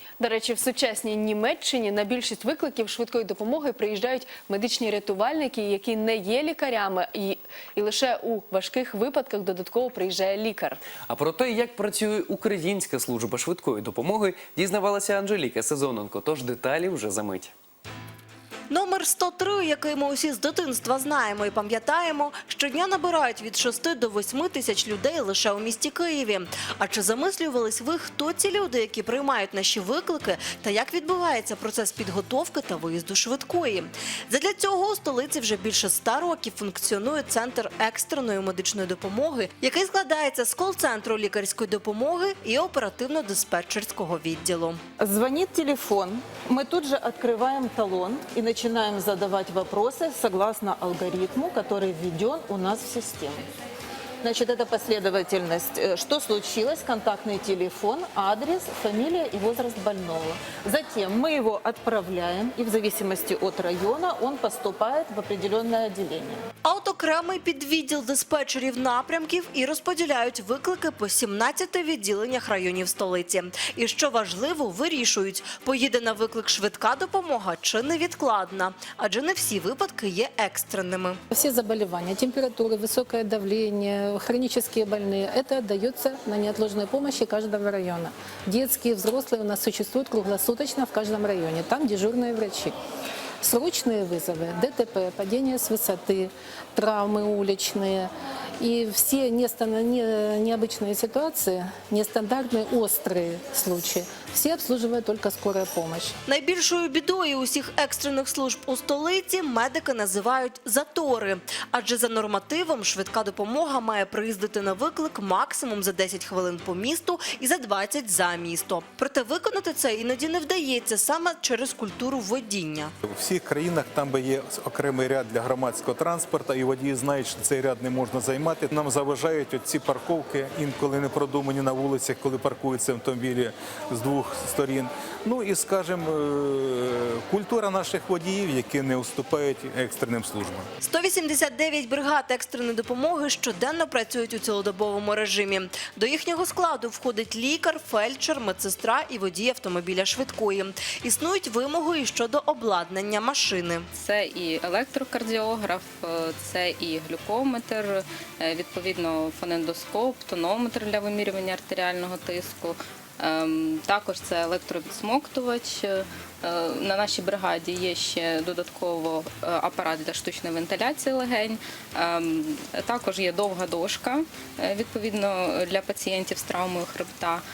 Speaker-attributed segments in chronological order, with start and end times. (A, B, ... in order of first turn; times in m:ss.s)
0:00.2-0:10.8 A
0:11.1-0:17.5 B
0:18.7-0:44.8 C
0:45.0-0:53.4 D
0:54.2-1:06.4 D
1:06.6-1:21.2 C
1:21.3-1:32.7 E
1:33.4-1:46.2 E
1:46.3-2:02.9 C
2:03.0-2:20.7 F
2:20.8-2:33.9 C
2:34.0-2:57.4 G